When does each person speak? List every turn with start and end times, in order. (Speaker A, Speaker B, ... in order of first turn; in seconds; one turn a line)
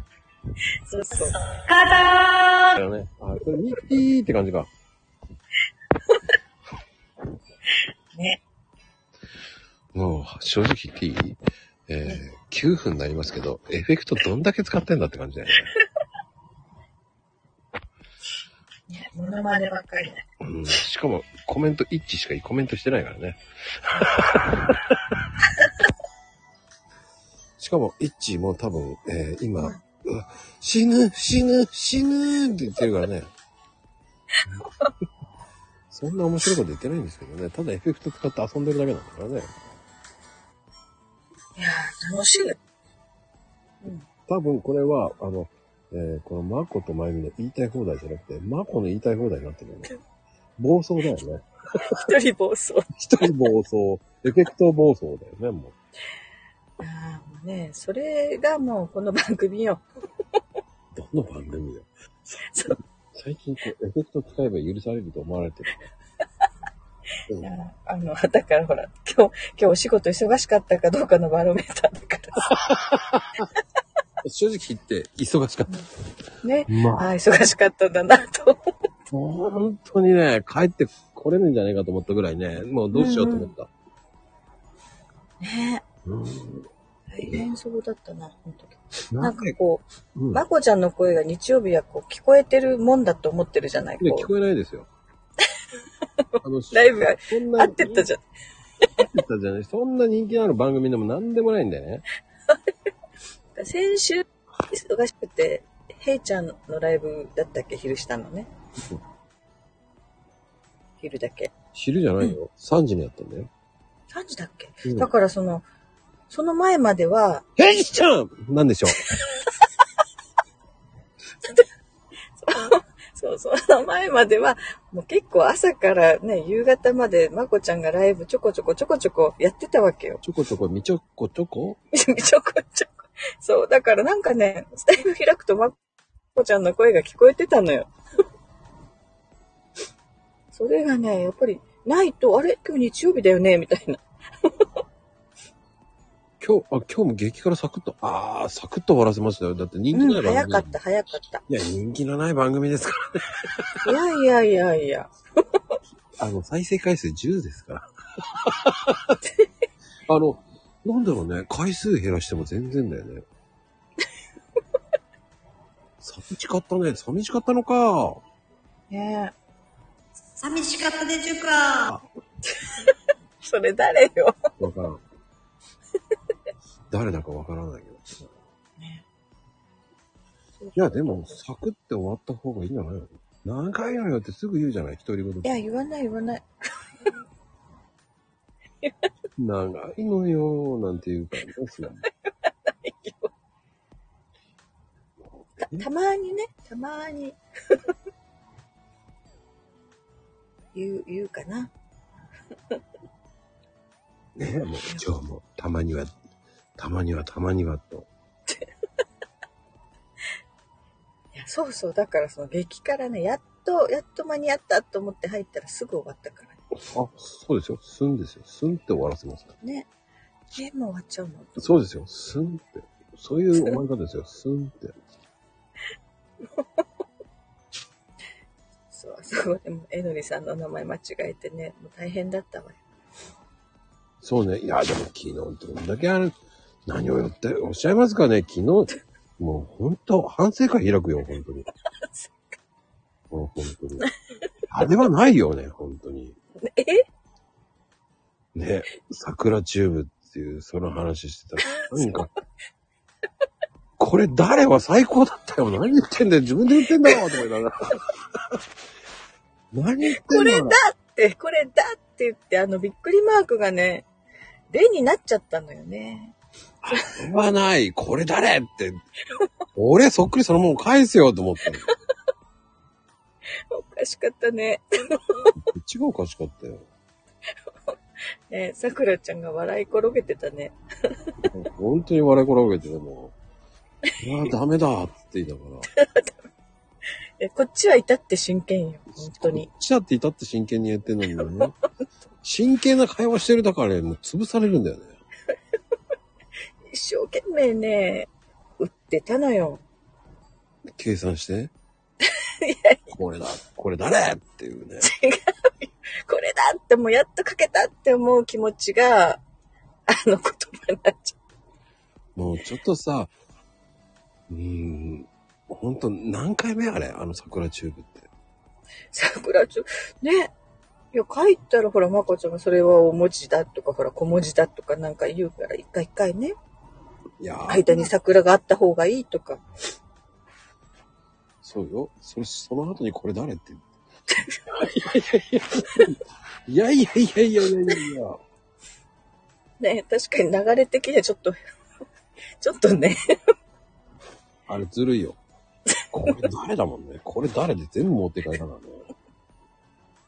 Speaker A: 0.8-1.4
Speaker B: 1.5-2.8
Speaker C: 2.7-4.7
Speaker A: 8.1-8.4
Speaker C: 9.9-15.7
Speaker A: 18.9-20.2
Speaker C: 20.4-25.0
Speaker C: 27.6-33.3
Speaker C: 35.9-39.5
Speaker A: 41.6-42.6
Speaker C: 44.3-49.9
Speaker C: 50.6-51.4
Speaker A: 51.8-52.9
Speaker C: 53.0-55.7
Speaker A: 56.8-59.8
Speaker C: 60.9-62.5
Speaker A: 62.5-62.8
Speaker C: 63.1-65.8
Speaker A: 67.4-72.5
Speaker C: 72.5-73.4
Speaker C: 74.2-75.8
Speaker A: 76.4-78.7
Speaker C: 76.7-77.1
Speaker C: 79.1-83.7
Speaker A: 82.9-83.5
Speaker A: 85.4-85.8
Speaker C: 86.0-86.7
Speaker A: 87.1-94.3
Speaker C: 89.1-89.5
Speaker C: 90.1-90.4
Speaker C: 94.0-94.9
Speaker C: 96.4-98.1
Speaker A: 96.7-98.2
Speaker C: 99.0-102.0
Speaker A: 103.5-108.5
Speaker A: 111.0-111.5
Speaker C: 111.7-113.5
Speaker A: 114.1-115.7
Speaker C: 114.8-115.1
Speaker A: 116.3-117.5
Speaker C: 117.6-119.0
Speaker A: 122.4-130.2
Speaker C: 130.2-131.8
Speaker A: 131.9-135.8
Speaker A: 136.3-137.9
Speaker A: 140.5-144.5
Speaker C: 146.4-150.7
Speaker A: 149.9-151.4
Speaker C: 151.5-153.8
Speaker A: 153.8-155.1
Speaker C: 156.2-159.2
Speaker C: 160.1-163.2
Speaker C: 166.0-168.2
Speaker A: 168.9-169.3
Speaker B: 170.4-171.9
Speaker A: 173.4-174.3
Speaker C: 174.6-175.0
Speaker C: 176.9-178.3
Speaker A: 178.8-179.1
Speaker A: 180.6-181.4
Speaker C: 180.8-185.5
Speaker A: 185.4-186.4
Speaker C: 189.4-192.0
Speaker A: 192.0-193.3
Speaker C: 195.2-195.9
Speaker A: 195.6-197.8
Speaker A: 200.7-201.7
Speaker C: 204.3-206.1
Speaker C: 206.8-208.1
Speaker A: 211.3-216.6
Speaker C: 216.8-219.5
Speaker A: 219.6-219.9
Speaker A: 220.5-221.8
Speaker C: 221.6-225.0
Speaker A: 228.9-232.8
Speaker C: 234.2-241.7
Speaker C: 243.3-244.1
Speaker C: 244.7-246.3
Speaker A: 246.6-247.0
Speaker C: 248.5-252.3
Speaker A: 251.7-252.2
Speaker C: 254.0-258.6
Speaker C: 259.7-260.8
Speaker A: 260.1-264.1
Speaker A: 264.7-266.4
Speaker C: 266.8-269.0
Speaker C: 269.7-271.9
Speaker A: 273.7-275.6
Speaker C: 275.6-276.9
Speaker A: 278.5-281.3
Speaker C: 281.4-283.3
Speaker C: 284.2-285.9
Speaker A: 285.9-286.3
Speaker A: 287.4-289.7
Speaker C: 289.1-291.7
Speaker C: 292.4-295.1
Speaker A: 296.9-299.8
Speaker C: 300.9-301.7
Speaker A: 302.3-303.1
Speaker C: 303.1-305.1
Speaker A: 305.0-309.4
Speaker A: 310.1-311.4
Speaker C: 312.3-313.3
Speaker C: 314.5-318.3
Speaker A: 319.1-320.5
Speaker A: 321.1-326.5
Speaker C: 327.4-328.1
Speaker A: 327.7-329.6
Speaker C: 331.6-333.8
Speaker A: 334.3-335.1
Speaker C: 334.7-338.4
Speaker A: 339.8-341.6
Speaker A: 342.6-343.4
Speaker C: 344.7-345.4
Speaker C: 346.1-349.1